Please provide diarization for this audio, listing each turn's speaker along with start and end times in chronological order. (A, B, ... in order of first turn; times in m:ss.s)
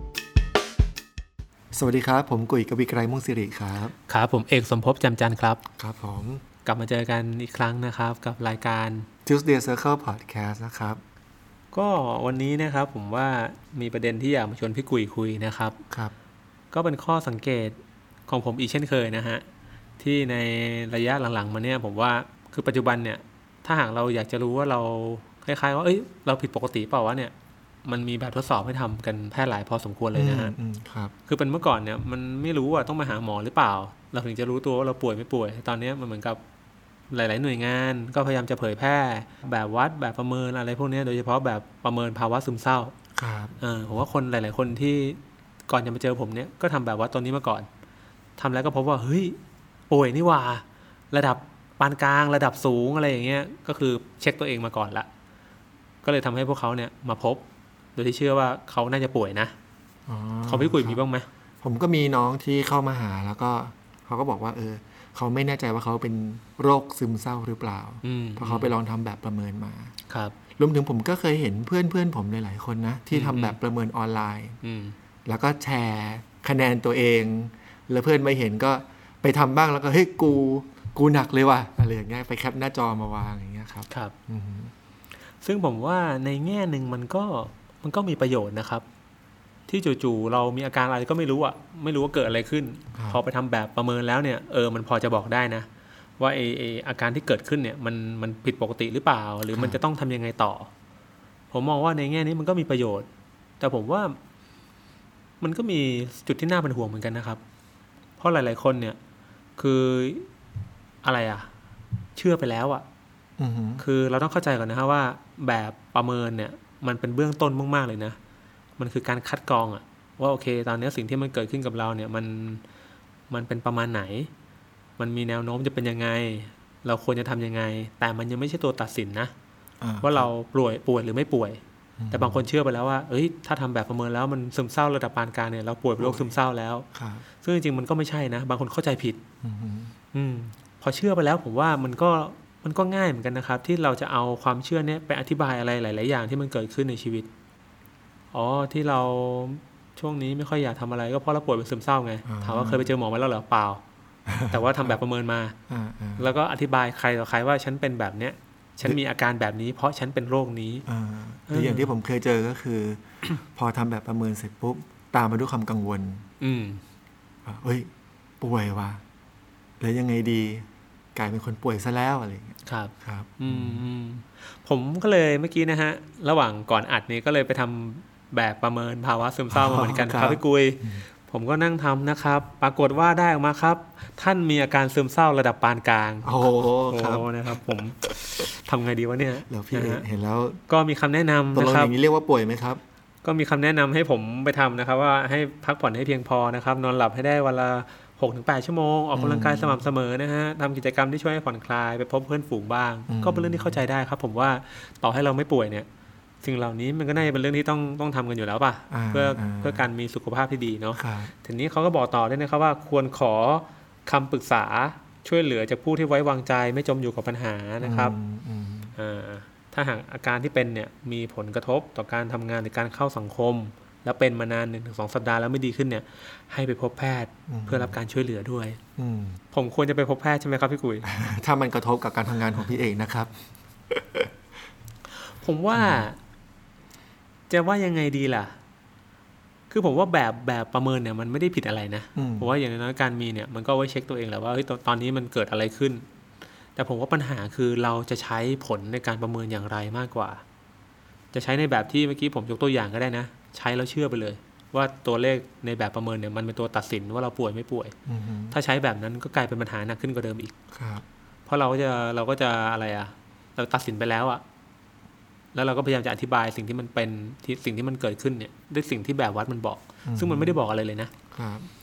0:01.7-0:03.9 A
0:04.1-0:05.6 B
0:05.8-0:06.4 A
0:06.6-0:09.1 B
0:09.2-0:11.0 A
0:11.7-0:15.8 B
0:16.7-0:19.4 B
0:20.0-0:27.3 B
0:27.8-0:30.5 B
0:30.1-0:31.1 A
0:31.3-0:36.4 B
0:37.1-0:42.9 B
0:43.1-0:43.6 A
0:43.6-0:47.7 B
0:48.4-0:49.4 B
0:49.9-0:55.1 B
0:56.0-0:57.4 B
0:57.9-0:59.5 B
1:00.1-1:01.0 A
1:00.5-1:01.3 B
1:01.6-1:09.9 A
1:08.0-1:08.7 B
1:10.1-1:10.3 B
1:10.6-1:14.6 A
1:13.1-1:13.6 B
1:14.6-1:15.0 B
1:15.2-1:24.7 A
1:25.4-1:28.8 B
1:29.7-1:35.7 B
1:32.9-1:33.2 A
1:36.2-1:40.7 B
1:39.5-1:39.8 A
1:41.5-1:43.1 B
1:43.6-1:44.2 B
1:45.4-1:47.4 B
1:48.2-1:49.0 B
1:49.6-1:50.3 B
1:51.0-1:51.5 B
1:52.2-1:52.8 B
1:53.4-1:53.8 A
1:53.8-1:58.2 B
1:58.8-2:02.6 B
2:03.3-2:04.3 B
2:05.0-2:09.3 B
2:09.8-2:10.3 A
2:10.0-2:16.8 B
2:12.0-2:12.5 A
2:16.0-2:16.4 A
2:16.9-2:17.2 A
2:17.4-2:19.2 B
2:19.4-2:19.9 A
2:20.1-2:27.3 B
2:28.3-2:33.8 B
2:32.2-2:32.9 A
2:34.3-2:35.0 A
2:34.5-2:35.6 B
2:35.7-2:36.3 A
2:36.2-2:40.8 B
2:40.9-2:46.2 A
2:41.5-2:41.9 B
2:46.4-2:46.8 B
2:47.4-2:47.9 A
2:48.4-2:49.0 A
2:49.8-2:53.9 A
2:52.6-3:10.0 B
2:59.5-3:01.0 A
3:06.2-3:07.8 A
3:09.4-3:10.6 A
3:10.7-3:11.9 B
3:11.5-3:12.8 A
3:13.2-3:25.9 B
3:19.1-3:19.8 A
3:23.1-3:23.8 A
3:26.4-3:38.2 B
3:28.9-3:29.9 A
3:30.9-3:31.3 A
3:37.8-3:39.0 A
3:39.0-3:48.8 B
3:47.5-3:48.0 A
3:49.0-3:49.4 A
3:49.5-3:51.1 B
3:51.0-3:54.3 A
3:55.2-3:56.2 B
3:55.7-3:56.1 A
3:57.5-3:58.6 B
3:59.7-4:06.0 B
4:02.2-4:02.5 A
4:06.8-4:10.4 B
4:11.3-4:17.9 B
4:18.1-4:18.6 A
4:18.5-4:20.5 B
4:20.7-4:21.0 A
4:21.4-4:24.4 B
4:25.5-4:31.1 B
4:30.0-4:30.6 A
4:31.3-4:31.7 A